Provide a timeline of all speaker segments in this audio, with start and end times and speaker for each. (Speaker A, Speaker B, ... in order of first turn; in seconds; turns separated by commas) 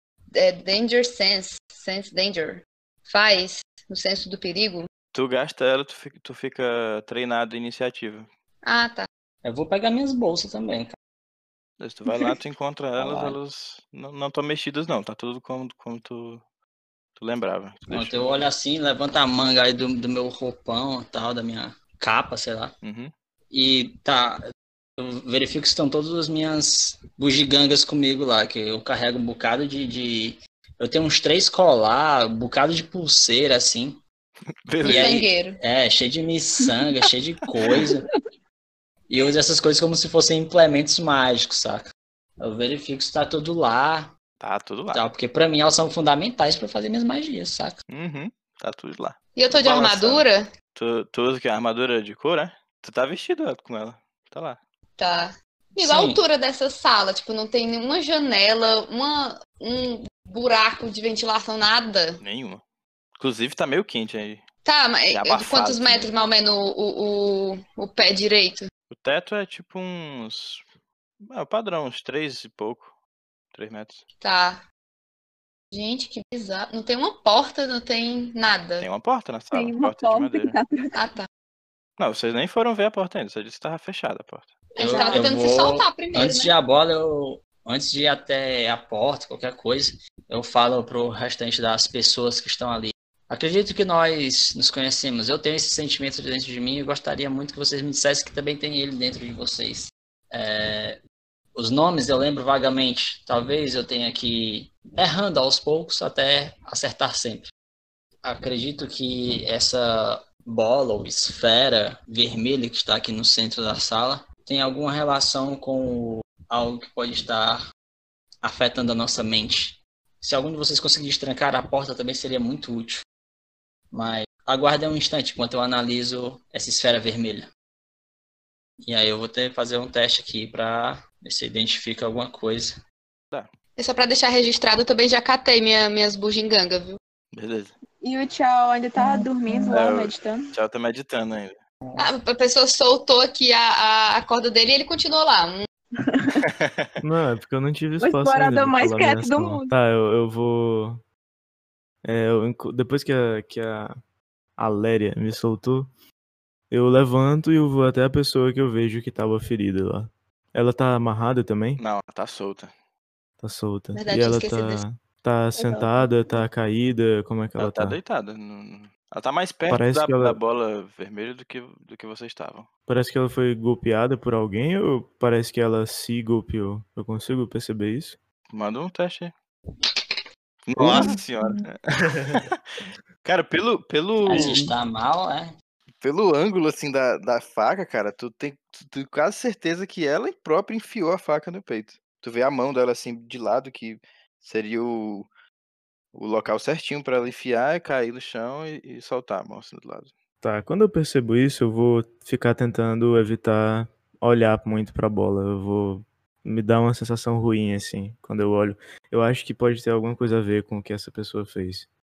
Speaker A: 0.3-4.9, Speaker B: 5.1-8.3, Speaker A: 8.6-9.1, Speaker C: 9.4-10.9, Speaker B: 11.8-16.4, Speaker C: 12.9-13.4, Speaker B: 17.1-18.5, Speaker C: 17.9-22.7, Speaker B: 22.8-23.1, Speaker C: 23.5-24.4, Speaker C: 25.0-34.0, Speaker B: 34.6-35.3, Speaker A: 34.8-35.6, Speaker C: 34.8-38.1, Speaker C: 39.1-44.1, Speaker B: 44.4-45.1, Speaker C: 44.9-47.8, Speaker B: 47.9-54.6, Speaker A: 49.3-50.5, Speaker A: 55.0-62.2, Speaker C: 55.8-56.2, Speaker B: 62.2-62.6, Speaker B: 63.2-64.4, Speaker A: 64.6-68.7, Speaker B: 65.1-66.1, Speaker B: 68.9-70.6, Speaker B: 71.2-72.9, Speaker B: 73.5-74.0, Speaker A: 74.2-74.6, Speaker A: 75.7-78.9, Speaker B: 78.8-80.6, Speaker D: 79.5-81.0, Speaker A: 80.9-81.3, Speaker B: 82.0-84.6, Speaker A: 84.7-86.5, Speaker C: 84.8-101.0, Speaker D: 84.8-85.3, Speaker C: 101.5-107.5, Speaker C: 108.2-117.6, Speaker C: 118.4-123.0, Speaker C: 123.9-127.5, Speaker C: 128.8-132.8, Speaker A: 133.8-137.0, Speaker B: 137.3-137.7, Speaker D: 138.0-140.5, Speaker B: 139.7-141.6, Speaker A: 141.9-145.7, Speaker D: 146.0-146.4, Speaker B: 146.4-146.9, Speaker E: 147.0-151.0, Speaker D: 148.0-149.7, Speaker E: 152.0-153.9, Speaker E: 154.6-155.9, Speaker E: 156.7-161.8, Speaker B: 161.8-162.7, Speaker E: 163.4-168.0, Speaker A: 163.9-164.8, Speaker D: 165.6-166.4, Speaker B: 167.6-172.7, Speaker E: 169.7-170.4, Speaker E: 172.9-178.2, Speaker B: 178.5-179.3, Speaker B: 180.7-182.6, Speaker E: 180.8-181.2, Speaker E: 182.1-182.4, Speaker B: 183.2-184.6, Speaker C: 184.2-185.5, Speaker E: 184.3-184.7, Speaker B: 186.0-195.3, Speaker B: 196.1-200.1, Speaker E: 200.4-211.9